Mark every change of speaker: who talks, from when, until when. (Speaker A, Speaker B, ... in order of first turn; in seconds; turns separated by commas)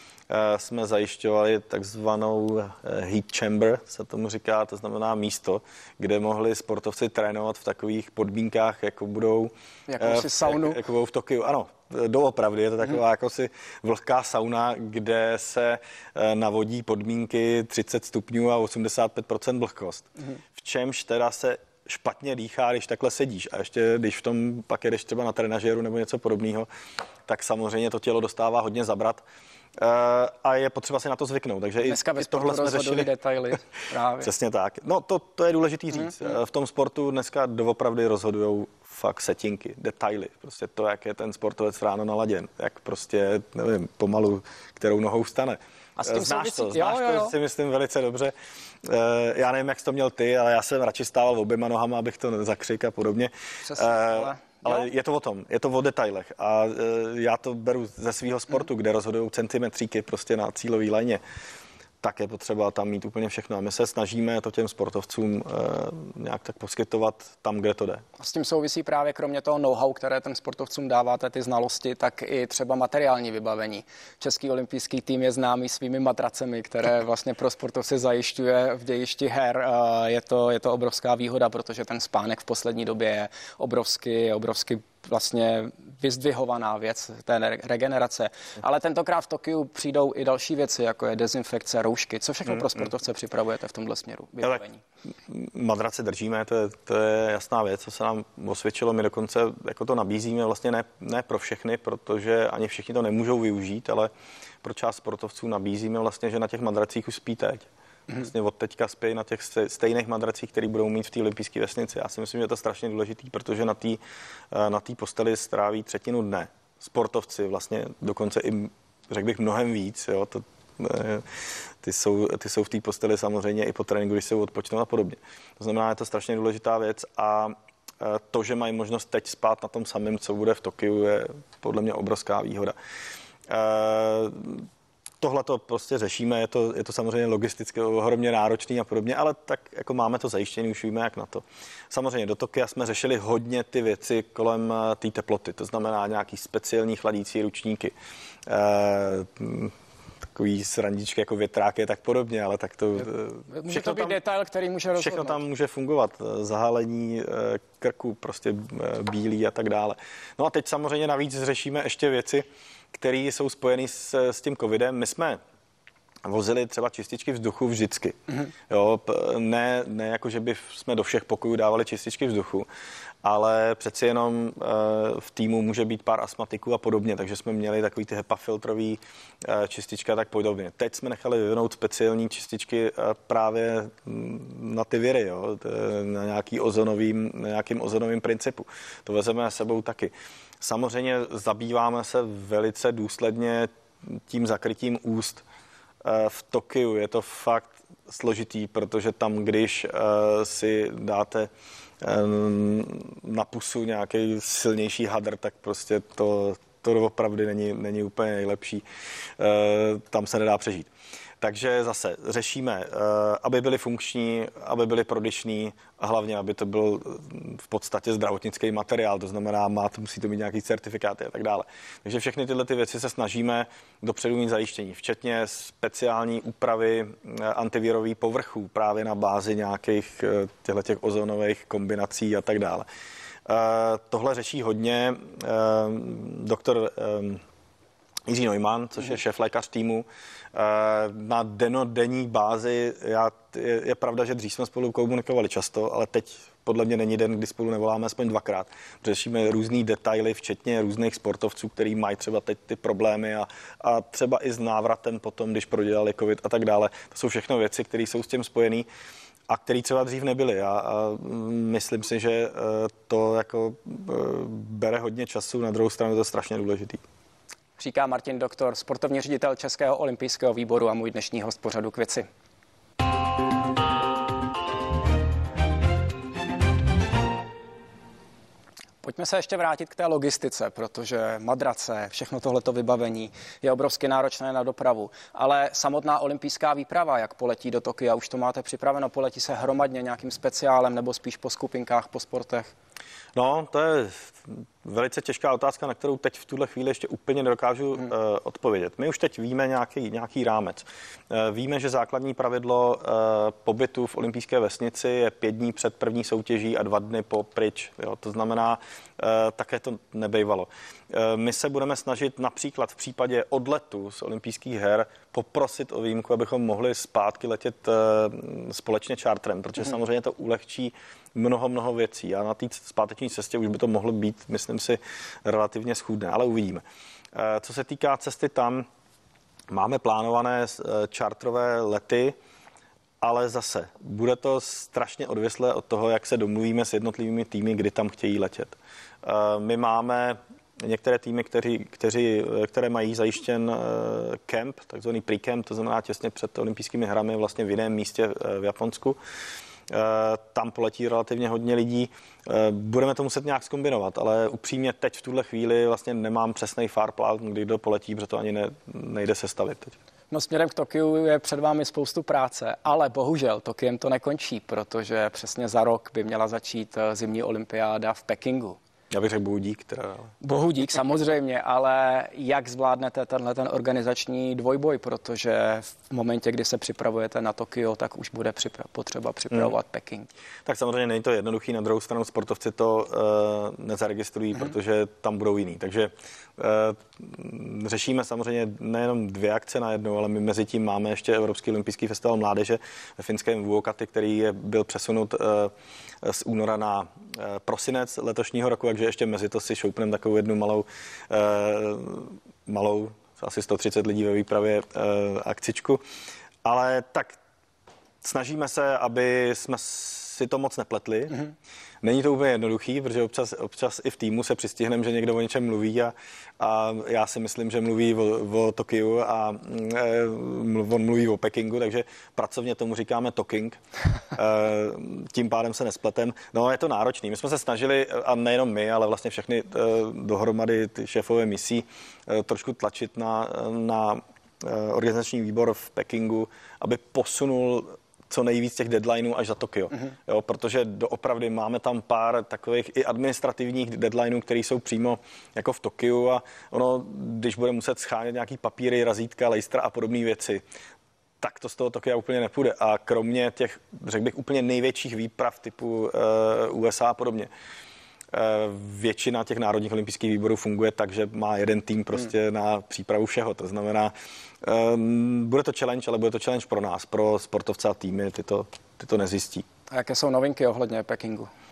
Speaker A: 0.3-26.7, Speaker B: 9.9-10.8, Speaker A: 27.3-29.2, Speaker A: 29.8-33.1, Speaker B: 31.8-34.3, Speaker A: 34.2-61.2, Speaker B: 46.0-47.3, Speaker B: 53.6-54.9, Speaker A: 62.0-68.0, Speaker B: 68.2-94.8, Speaker A: 95.3-104.1, Speaker A: 104.6-132.7, Speaker A: 133.5-134.7, Speaker A: 135.2-147.9, Speaker A: 148.4-149.7, Speaker A: 150.3-154.2, Speaker B: 153.5-155.4, Speaker A: 155.0-165.4, Speaker A: 166.2-172.7, Speaker A: 173.2-195.4, Speaker A: 196.0-201.5, Speaker A: 202.0-208.8, Speaker A: 209.4-232.8, Speaker A: 233.4-237.4, Speaker A: 238.3-258.9, Speaker A: 259.5-267.0, Speaker B: 267.8-272.3, Speaker B: 279.0-292.7, Speaker A: 293.4-328.9, Speaker A: 329.7-332.4, Speaker A: 333.2-349.2, Speaker A: 349.9-359.9, Speaker B: 360.3-368.8, Speaker A: 369.1-370.3, Speaker B: 370.4-380.3, Speaker A: 380.6-406.0, Speaker A: 406.6-407.4, Speaker A: 408.2-411.5, Speaker A: 412.0-423.8, Speaker A: 424.3-450.6, Speaker A: 451.4-457.5, Speaker A: 458.3-469.6, Speaker B: 469.9-471.5